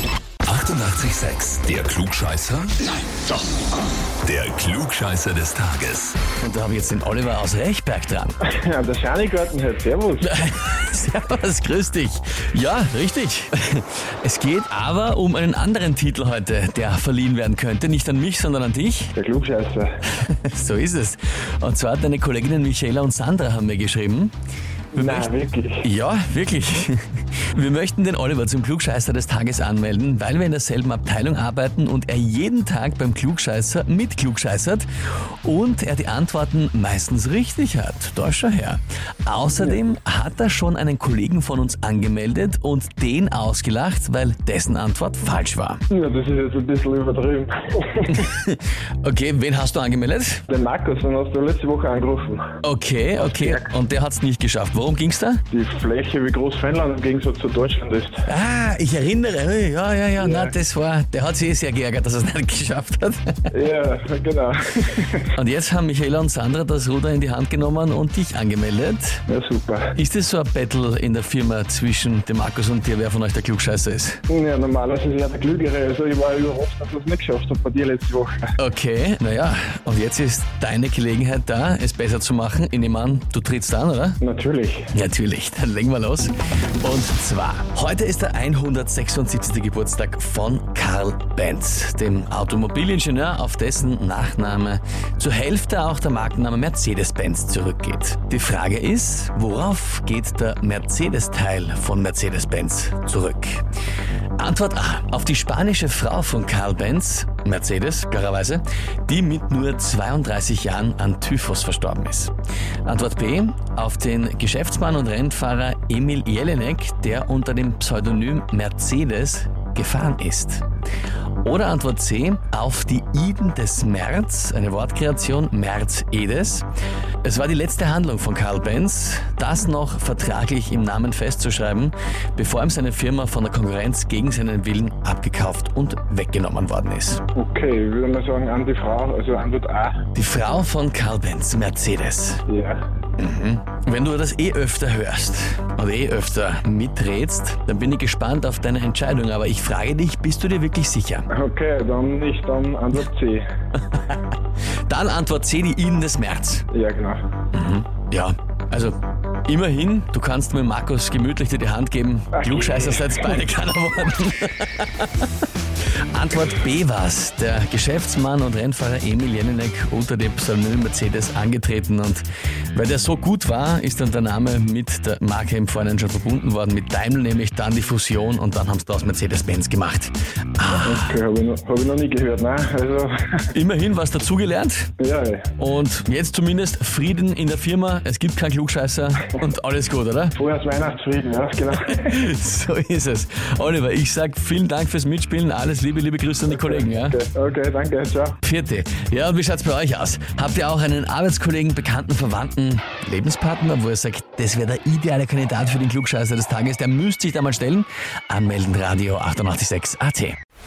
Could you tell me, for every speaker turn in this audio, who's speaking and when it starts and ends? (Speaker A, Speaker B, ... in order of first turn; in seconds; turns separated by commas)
Speaker A: 0.5-2.9, Speaker A: 4.2-6.2, Speaker B: 6.4-8.4, Speaker C: 8.4-10.4, Speaker B: 10.2-19.1, Speaker C: 19.2-19.9, Speaker B: 20.2-24.3, Speaker B: 24.9-25.3, Speaker C: 24.9-25.9, Speaker B: 25.8-45.8, Speaker C: 39.5-39.8, Speaker C: 45.9-48.3, Speaker B: 48.1-50.4, Speaker C: 50.5-52.5, Speaker B: 52.6-55.4, Speaker C: 55.5-58.2, Speaker B: 58.3-63.5, Speaker C: 60.2-60.5, Speaker C: 63.5-65.3, Speaker B: 65.3-69.2, Speaker C: 69.3-69.9, Speaker B: 70.0-74.2, Speaker C: 74.3-78.5, Speaker B: 78.6-84.2, Speaker C: 84.2-84.9, Speaker B: 84.9-103.6, Speaker B: 104.4-112.3, Speaker B: 112.8-120.7, Speaker B: 121.4-126.7, Speaker B: 127.2-137.2, Speaker C: 137.3-140.0, Speaker B: 140.1-142.4, Speaker C: 142.5-142.8, Speaker B: 143.2-151.3, Speaker C: 151.3-153.4, Speaker B: 153.9-154.2, Speaker B: 154.9-156.7, Speaker C: 156.7-157.2, Speaker B: 157.5-165.4, Speaker C: 162.3-163.4, Speaker B: 166.1-181.2, Speaker C: 180.8-183.4, Speaker B: 183.5-184.9, Speaker C: 185.0-185.5, Speaker B: 185.6-190.4, Speaker C: 190.3-192.3, Speaker B: 191.8-197.2, Speaker C: 196.5-198.4, Speaker B: 198.4-210.4